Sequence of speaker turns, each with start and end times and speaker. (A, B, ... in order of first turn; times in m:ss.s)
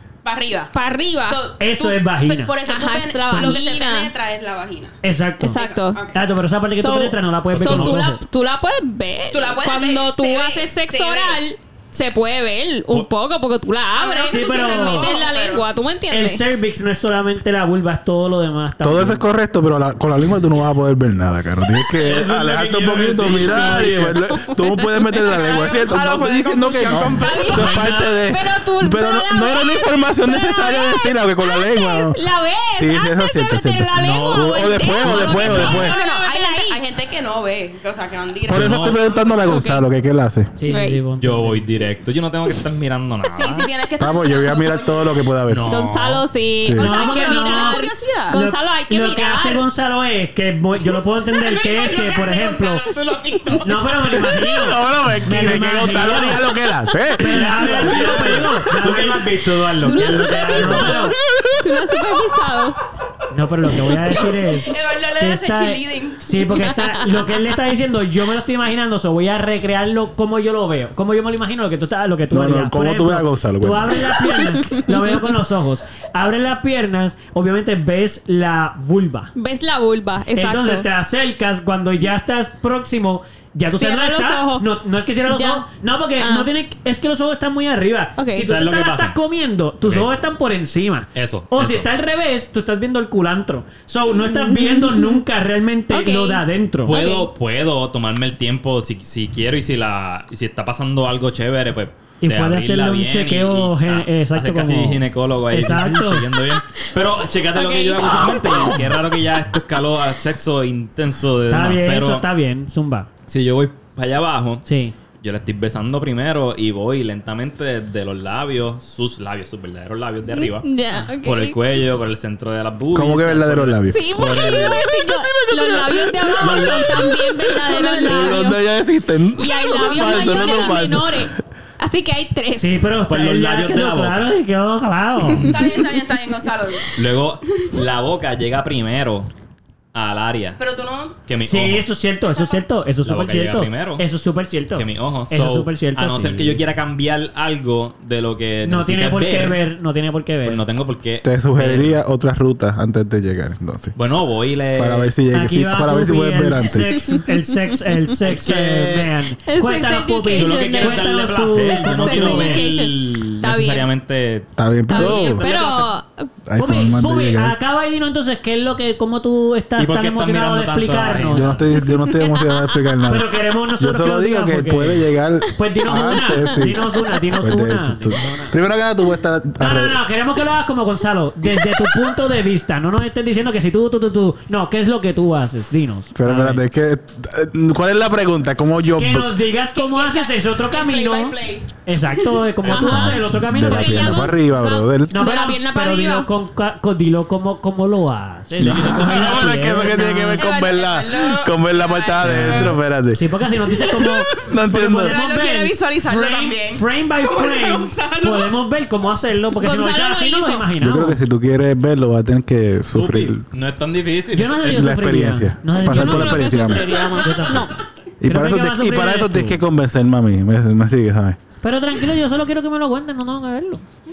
0:00.2-0:05.0 A
0:00.7-0:01.4 B
0:01.6-0:02.6 C
0:02.6-0:04.1 B
0:03.3-0:03.6 C
0:05.0-0:05.6 C
0:05.4-0:06.0 B
0:05.5-0:06.2 A
0:06.1-0:08.2 C
0:06.8-0:16.5 B
0:07.5-0:08.0 D
0:09.3-0:11.4 A
0:13.9-0:15.6 A
0:14.3-0:15.1 C
0:16.1-0:19.2 C
0:18.8-0:32.2 E
0:21.9-0:24.2 D
0:23.4-0:25.2 B
0:25.2-0:27.7 A
0:27.1-0:36.8 B
0:27.5-0:28.2 D
0:32.8-0:36.0 E
0:33.9-0:35.7 D
0:35.1-0:38.9 A
0:38.5-0:40.5 E
0:38.5-0:39.0 D
0:39.0-0:39.8 B
0:40.6-0:41.7 C
0:40.7-0:41.0 B
0:41.1-0:43.7 D
0:43.2-0:45.2 A
0:44.0-0:45.7 E
0:45.4-0:46.2 D
0:45.6-0:49.6 B
0:46.6-0:46.9 E
0:46.6-0:48.3 A
0:46.7-0:52.9 C
0:51.3-0:54.3 A
0:53.6-0:56.5 C
0:54.4-0:58.5 E
0:57.2-0:59.4 C
0:57.4-1:01.0 D
0:59.8-1:02.8 B
1:00.3-1:01.2 C
1:03.3-1:19.3 C
1:04.1-1:06.2 A
1:06.6-1:07.2 B
1:12.3-1:14.3 E
1:19.3-1:20.9 B
1:20.3-1:37.0 C
1:23.6-1:24.6 B
1:25.3-1:25.6 B
1:26.2-1:26.5 B
1:28.2-1:28.5 B
1:28.4-1:29.2 D
1:29.8-1:30.1 D
1:31.1-1:31.9 D
1:34.1-1:35.2 B
1:35.9-1:37.3 B
1:36.8-1:52.3 D
1:42.2-1:46.3 C
1:47.5-1:49.0 B
1:51.5-1:53.1 C
1:53.3-1:54.6 D
1:54.6-1:55.0 C
1:55.2-2:04.8 D
2:00.3-2:01.6 B
2:02.9-2:04.5 E
2:03.8-2:08.6 B
2:05.0-2:11.3 E
2:07.6-2:08.4 A
2:09.3-2:12.9 B
2:09.8-2:10.8 A
2:12.5-2:15.5 C
2:13.0-2:14.3 D
2:15.4-2:17.0 A
2:17.0-2:19.3 D
2:19.9-2:20.6 D
2:20.6-2:21.2 A
2:21.2-2:21.9 D
2:21.4-2:26.6 C
2:22.2-2:22.6 A
2:23.0-2:24.0 D
2:24.7-2:29.6 D
2:28.6-2:30.6 C
2:30.4-2:31.9 D
2:31.2-2:33.9 E
2:34.0-2:35.1 D
2:34.7-2:36.9 E
2:35.3-2:42.7 C
2:38.2-2:39.1 D
2:39.4-2:41.1 B
2:40.3-2:45.4 D
2:41.7-2:43.9 B
2:44.6-2:45.4 E
2:44.9-2:46.3 B
2:45.4-2:45.8 A
2:46.4-2:47.6 E
2:46.6-2:51.7 C
2:49.8-2:51.7 D
2:51.3-3:00.0 E
2:51.8-2:52.9 B
2:53.1-2:58.5 C
2:55.9-2:56.9 B
2:59.6-3:06.6 C
3:06.1-3:09.4 E
3:08.9-3:14.4 C
3:09.7-3:12.5 A
3:12.6-3:16.3 B
3:12.7-3:15.1 E
3:15.1-3:20.4 C
3:18.6-3:23.2 E
3:20.2-3:22.8 A
3:22.2-3:31.2 C
3:23.8-3:28.5 A
3:24.0-3:25.2 E
3:29.6-3:30.6 B
3:30.8-3:33.4 E
3:32.9-3:34.9 D
3:34.3-3:37.7 C
3:34.6-3:37.1 E
3:35.7-3:37.7 B
3:38.2-3:41.4 E
3:38.2-3:39.6 C
3:41.6-3:43.8 C